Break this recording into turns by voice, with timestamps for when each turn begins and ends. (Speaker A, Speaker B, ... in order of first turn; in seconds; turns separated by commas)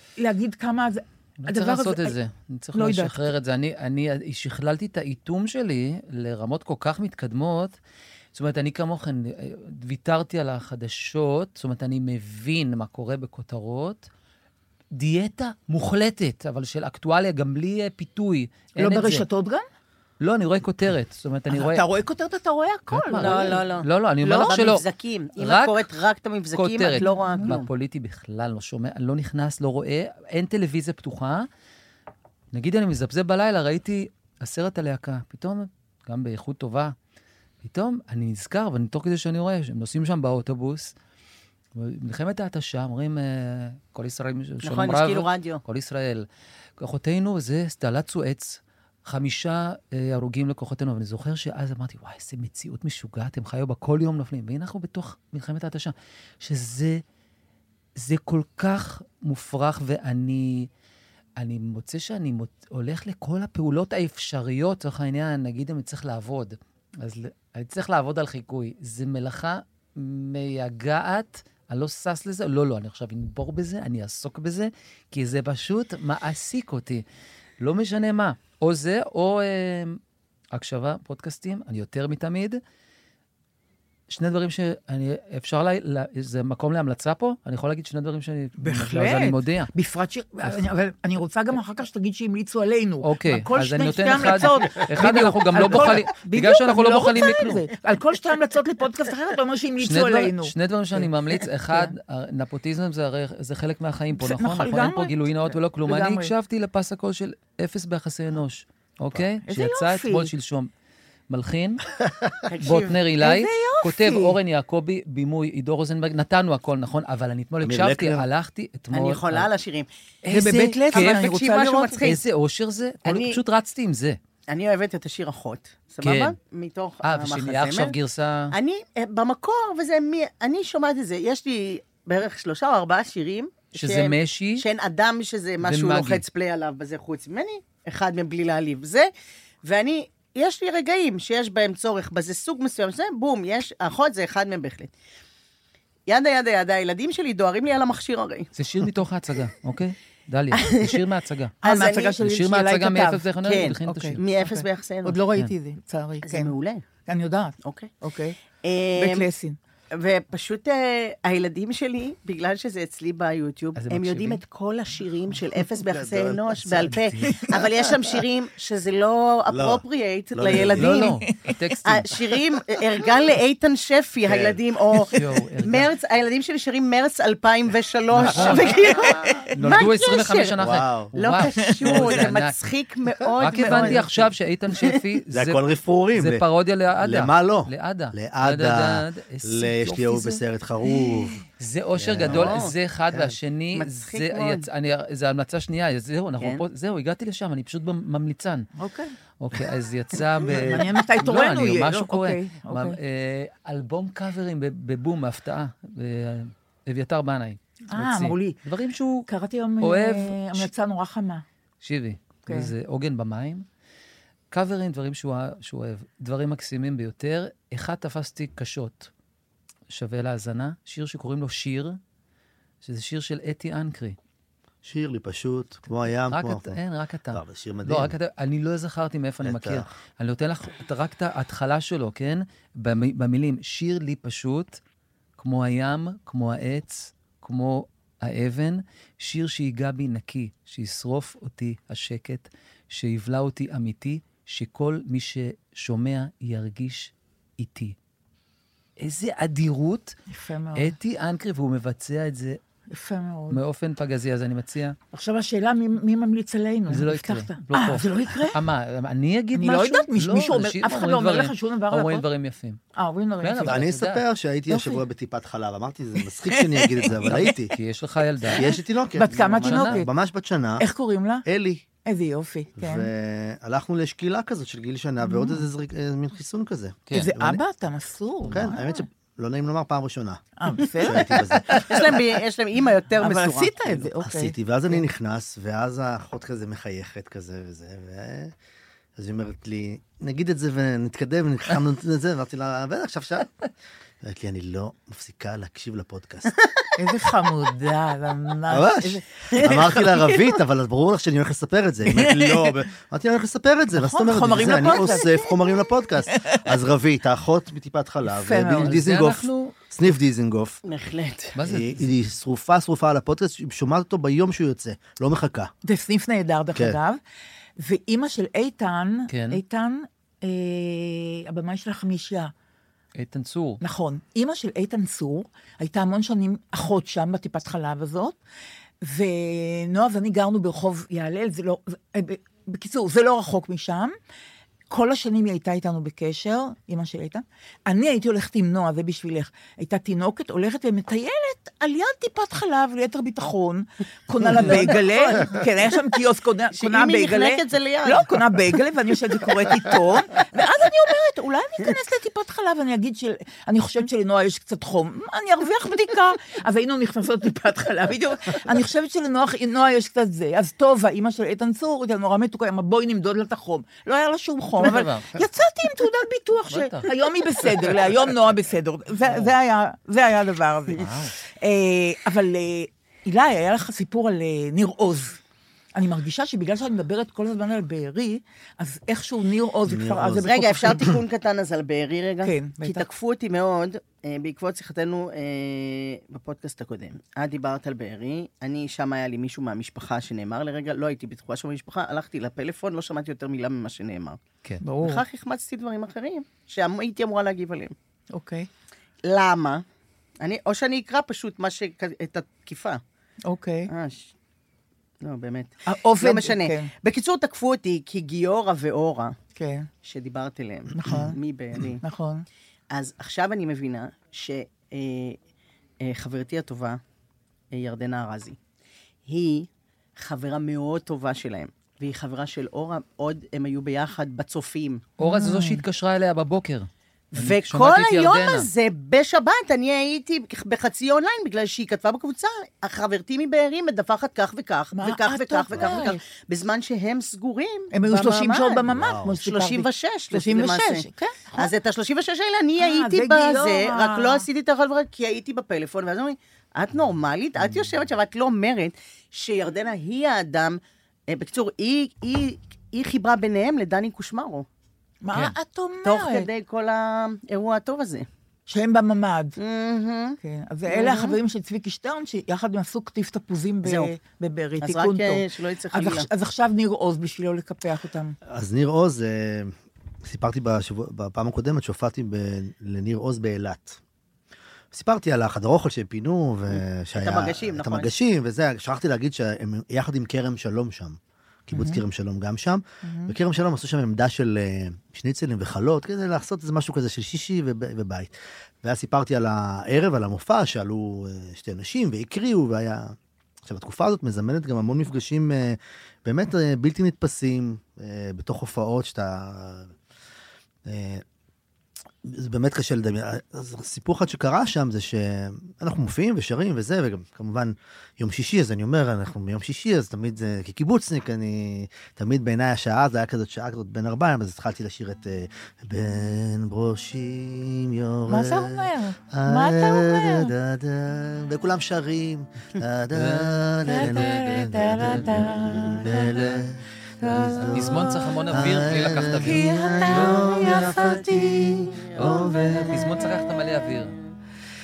Speaker A: 0.2-2.1, Speaker B: 1.4-7.8, Speaker A: 2.7-3.3, Speaker B: 8.3-14.1, Speaker B: 14.9-19.2, Speaker A: 18.8-19.6, Speaker B: 20.2-21.8, Speaker A: 21.5-23.6, Speaker B: 22.9-24.8, Speaker C: 23.2-27.7, Speaker A: 24.2-24.6, Speaker B: 25.4-25.8, Speaker B: 26.5-31.5, Speaker A: 27.0-27.5, Speaker B: 32.5-36.9, Speaker B: 37.6-40.9, Speaker B: 41.8-46.2, Speaker C: 44.6-45.6, Speaker B: 46.8-57.0, Speaker B: 58.0-60.7, Speaker B: 61.4-77.0, Speaker B: 77.6-80.0, Speaker B: 80.5-82.6, Speaker B: 84.1-89.7, Speaker A: 88.6-101.9, Speaker B: 93.0-97.7, Speaker B: 99.8-110.7, Speaker A: 104.2-106.3, Speaker A: 109.5-110.3, Speaker B: 111.3-111.8, Speaker C: 112.5-112.9, Speaker B: 112.6-119.5, Speaker A: 113.2-114.3, Speaker D: 117.6-118.2, Speaker C: 118.9-119.9, Speaker B: 120.2-121.3, Speaker A: 120.3-122.1, Speaker C: 120.9-122.2, Speaker B: 122.0-124.2, Speaker C: 123.0-123.4, Speaker C: 124.5-127.9, Speaker B: 126.0-126.3, Speaker B: 127.0-128.5, Speaker C: 128.5-139.1, Speaker B: 133.7-134.6, Speaker B: 135.6-136.2, Speaker C: 139.6-144.9, Speaker C: 146.1-148.5, Speaker B: 148.5-151.6, Speaker C: 150.6-151.0, Speaker C: 151.6-152.2, Speaker A: 151.6-153.2, Speaker B: 152.2-154.2, Speaker C: 153.4-155.2, Speaker A: 153.8-156.5, Speaker C: 156.2-156.8, Speaker A: 157.1-158.4, Speaker C: 157.6-157.9, Speaker C: 158.6-159.2, Speaker A: 159.0-159.6, Speaker C: 159.9-171.1, Speaker B: 163.8-164.4, Speaker D: 165.8-167.0, Speaker B: 166.7-167.1, Speaker D: 169.5-169.8, Speaker D: 170.3-171.1, Speaker B: 170.5-172.2, Speaker C: 171.8-180.6, Speaker D: 174.2-174.6, Speaker B: 175.1-175.9, Speaker B: 178.1-178.8, Speaker A: 178.9-179.4, Speaker B: 179.5-182.5, Speaker D: 180.6-181.1, Speaker C: 181.1-185.0, Speaker B: 183.4-185.6, Speaker A: 183.6-184.0, Speaker D: 185.3-186.4, Speaker B: 186.1-189.8, Speaker D: 187.0-191.4, Speaker A: 189.9-190.4, Speaker B: 191.6-198.7, Speaker D: 191.9-193.3, Speaker C: 192.2-192.7, Speaker C: 193.7-194.6, Speaker A: 198.8-199.1, Speaker B: 199.4-209.3, Speaker A: 200.5-203.0, Speaker A: 207.9-208.6, Speaker A: 209.3-211.4, Speaker B: 209.8-210.7, Speaker B: 211.8-213.6, Speaker A: 212.5-212.7, Speaker B: 214.5-219.1, Speaker B: 219.9-222.0, Speaker B: 222.8-224.2, Speaker D: 224.8-226.8, Speaker B: 226.0-234.8, Speaker D: 227.3-228.1, Speaker D: 229.4-229.9, Speaker B: 235.4-247.9, Speaker B: 249.0-250.1, Speaker A: 250.3-251.0, Speaker B: 250.8-252.6, Speaker A: 252.9-253.6, Speaker B: 253.5-255.0, Speaker A: 255.1-258.6, Speaker B: 256.9-262.8, Speaker A: 259.5-262.2, Speaker A: 263.0-263.8, Speaker B: 263.4-264.2, Speaker D: 263.6-267.7, Speaker A: 264.7-265.0, Speaker A: 266.2-267.5, Speaker B: 267.4-268.8, Speaker D: 268.5-270.9, Speaker A: 269.1-270.1, Speaker B: 269.3-270.1, Speaker A: 270.8-271.4, Speaker D: 271.4-271.8, Speaker A: 272.0-273.1, Speaker D: 272.8-277.6, Speaker A: 275.2-275.6, Speaker A: 277.1-279.1, Speaker B: 278.4-278.7, Speaker D: 278.5-282.1, Speaker A: 280.6-281.8, Speaker C: 281.9-284.1, Speaker A: 283.2-285.0, Speaker D: 284.2-288.5, Speaker D: 289.1-293.5, Speaker D: 294.2-296.5, Speaker A: 297.0-300.5, Speaker D: 298.7-310.8, Speaker A: 302.1-302.8, Speaker A: 303.9-305.7, Speaker A: 306.3-306.6, Speaker A: 308.2-308.9, Speaker B: 308.8-309.8, Speaker C: 310.9-311.5, Speaker B: 311.5-312.1, Speaker D: 311.6-315.7, Speaker A: 315.8-317.2, Speaker A: 317.8-322.5, Speaker B: 319.3-319.6, Speaker B: 323.2-323.8, Speaker A: 323.8-328.4, Speaker A: 329.0-334.1, Speaker A: 334.9-375.4, Speaker C: 344.5-345.7, Speaker C: 346.8-348.3, Speaker B: 364.8-365.4, Speaker B: 366.7-367.1, Speaker B: 371.0-371.3, Speaker A: 375.9-381.1, Speaker D: 379.9-380.5, Speaker C: 380.4-394.4, Speaker A: 382.4-383.1, Speaker A: 394.8-395.2, Speaker C: 395.0-397.9, Speaker A: 398.3-398.7, Speaker C: 399.2-399.8, Speaker C: 400.4-403.0, Speaker A: 403.5-403.9, Speaker C: 403.9-404.3, Speaker C: 405.2-409.4, Speaker A: 405.9-406.9, Speaker A: 409.6-409.9, Speaker C: 410.0-412.0, Speaker A: 410.9-411.4, Speaker A: 412.0-412.4, Speaker C: 412.9-415.4, Speaker C: 416.0-417.0, Speaker C: 417.7-418.6, Speaker C: 419.3-425.0, Speaker B: 425.2-428.7, Speaker A: 425.2-425.8, Speaker C: 427.3-441.0, Speaker A: 434.9-436.2, Speaker D: 435.8-436.0, Speaker A: 437.9-441.8, Speaker D: 438.9-439.4, Speaker C: 441.6-454.6, Speaker A: 442.8-444.4, Speaker A: 455.2-456.5, Speaker C: 456.0-458.3, Speaker A: 458.7-459.5, Speaker C: 459.6-460.4, Speaker A: 460.4-468.4, Speaker C: 460.9-461.4, Speaker C: 463.8-464.1, Speaker C: 464.8-466.3, Speaker D: 468.5-474.0, Speaker D: 474.9-499.9, Speaker C: 476.7-478.1, Speaker A: 481.7-482.0, Speaker A: 483.0-483.3, Speaker D: 500.9-501.2, Speaker D: 502.2-533.0, Speaker A: 518.3-520.5, Speaker B: 523.1-525.3, Speaker A: 523.9-526.4, Speaker A: 527.2-528.1, Speaker B: 527.7-530.5, Speaker A: 529.4-531.6, Speaker B: 532.3-534.1